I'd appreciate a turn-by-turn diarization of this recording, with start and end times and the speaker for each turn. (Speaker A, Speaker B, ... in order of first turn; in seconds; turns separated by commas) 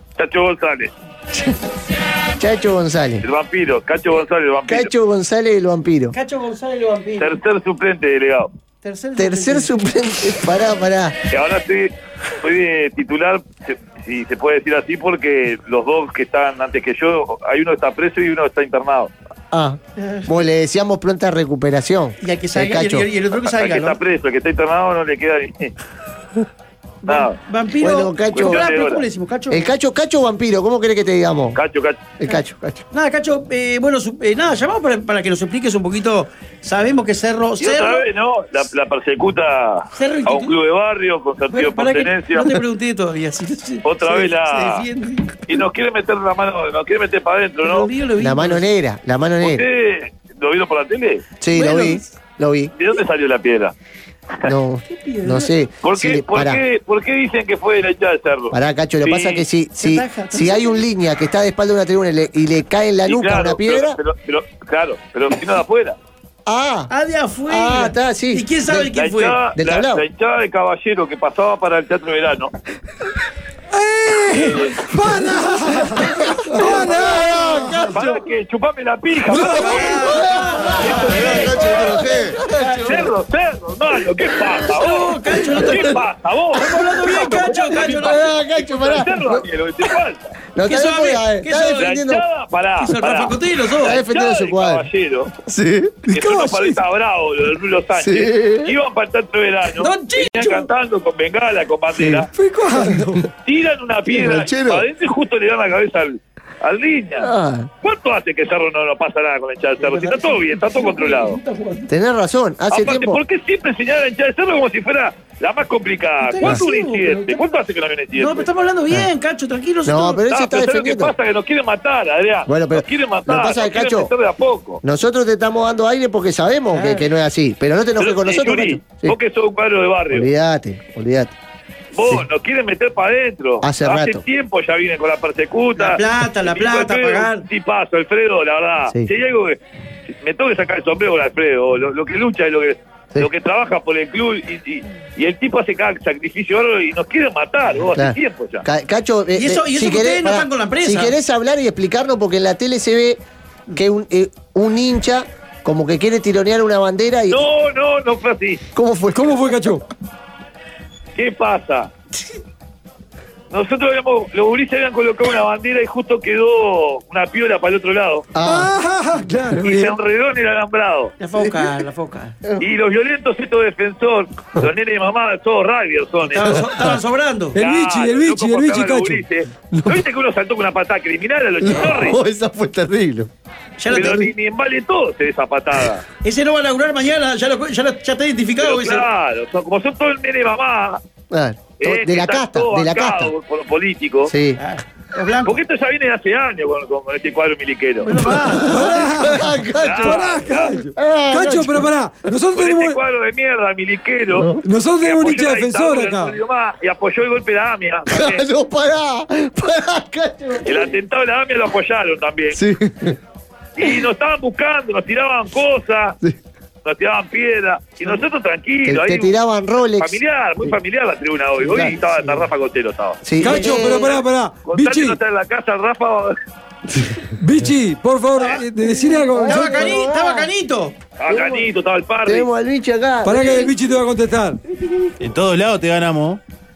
Speaker A: 0.2-0.9, Speaker B: 2.4-3.2, Speaker A: 3.2-4.9, Speaker B: 4.7-6.2, Speaker C: 6.1-7.4, Speaker A: 7.2-8.5, Speaker C: 8.8-9.7, Speaker B: 9.2-11.2, Speaker A: 11.3-19.1, Speaker B: 19.5-23.1, Speaker C: 20.0-20.3, Speaker C: 22.2-24.0, Speaker A: 23.4-25.7, Speaker C: 27.0-29.7, Speaker A: 27.1-27.4, Speaker B: 27.8-28.6, Speaker A: 28.3-29.1, Speaker B: 29.5-31.6, Speaker A: 31.6-32.0, Speaker B: 32.2-32.9, Speaker C: 32.2-38.0, Speaker A: 37.6-42.6, Speaker C: 39.9-40.5, Speaker C: 41.5-45.4, Speaker A: 43.8-44.8, Speaker A: 45.5-47.9, Speaker C: 47.6-48.7, Speaker B: 48.2-49.6, Speaker A: 49.4-51.2, Speaker B: 51.4-52.7, Speaker C: 51.5-52.0, Speaker A: 52.8-53.7, Speaker B: 54.4-56.6, Speaker C: 54.9-55.5, Speaker A: 55.8-59.5, Speaker B: 58.5-64.0, Speaker C: 59.8-60.8, Speaker A: 63.0-66.0, Speaker B: 66.5-66.9, Speaker C: 66.9-69.4, Speaker B: 67.5-68.9, Speaker A: 69.0-72.5, Speaker B: 69.5-70.0, Speaker D: 73.7-77.9, Speaker A: 74.4-74.7, Speaker B: 76.0-78.3, Speaker A: 77.9-80.1, Speaker B: 79.3-83.1, Speaker C: 79.3-83.1, Speaker A: 80.8-81.4, Speaker E: 81.4-82.1, Speaker A: 82.8-90.3, Speaker C: 84.7-86.0, Speaker B: 85.2-86.0, Speaker C: 86.6-88.4, Speaker B: 86.6-89.5, Speaker B: 90.5-92.2, Speaker C: 90.6-92.0, Speaker A: 91.8-95.3, Speaker C: 92.8-94.0, Speaker B: 93.8-94.9, Speaker B: 95.5-96.2, Speaker A: 96.1-102.3, Speaker D: 96.2-96.8, Speaker B: 98.0-98.8, Speaker C: 99.8-100.7, Speaker B: 102.0-102.3, Speaker D: 102.3-103.3, Speaker B: 102.8-103.2, Speaker A: 103.5-107.3, Speaker B: 104.1-104.9, Speaker B: 107.2-107.7, Speaker A: 107.8-111.4, Speaker C: 109.8-111.9, Speaker B: 111.9-113.2, Speaker A: 112.7-118.5, Speaker C: 116.2-117.6, Speaker C: 118.2-120.2, Speaker B: 119.9-121.1, Speaker A: 120.3-124.8, Speaker B: 122.5-124.1, Speaker B: 124.8-129.2, Speaker C: 126.7-127.1, Speaker A: 128.0-130.3, Speaker B: 130.1-131.3, Speaker A: 131.9-148.7, Speaker B: 132.0-132.3, Speaker B: 133.6-134.2, Speaker C: 135.8-137.4, Speaker B: 147.9-153.2, Speaker C: 149.3-151.2, Speaker B: 153.8-157.4, Speaker A: 157.3-158.6, Speaker B: 158.7-159.5, Speaker D: 159.1-159.8, Speaker A: 161.2-161.9, Speaker A: 163.5-168.3, Speaker B: 168.3-168.7, Speaker D: 168.4-170.0, Speaker A: 169.6-171.1, Speaker C: 171.2-172.4, Speaker A: 172.6-176.7, Speaker C: 176.2-177.6, Speaker D: 177.6-179.2, Speaker A: 177.6-182.2, Speaker B: 179.7-180.0, Speaker B: 181.6-183.3, Speaker C: 183.8-184.3, Speaker A: 183.9-186.1, Speaker C: 186.2-189.1, Speaker A: 188.6-191.0, Speaker B: 191.3-193.3, Speaker A: 191.8-194.3, Speaker B: 194.3-194.6, Speaker C: 194.6-195.6, Speaker A: 195.4-198.1, Speaker C: 198.0-199.1, Speaker B: 198.2-201.9, Speaker D: 198.7-203.0, Speaker A: 199.8-200.7, Speaker A: 202.5-208.4, Speaker B: 204.3-204.6, Speaker D: 204.6-206.4, Speaker B: 208.1-210.9, Speaker A: 210.7-212.6, Speaker B: 212.5-213.2, Speaker A: 213.8-216.2, Speaker A: 216.8-219.4, Speaker B: 218.8-220.8, Speaker A: 220.0-226.3, Speaker C: 221.6-222.4, Speaker B: 223.2-224.1, Speaker D: 223.4-225.2, Speaker D: 227.4-230.0, Speaker B: 229.0-230.5, Speaker C: 229.4-231.0, Speaker A: 231.2-232.5, Speaker B: 231.3-231.7, Speaker B: 232.2-233.6, Speaker D: 233.2-234.6, Speaker E: 235.2-236.4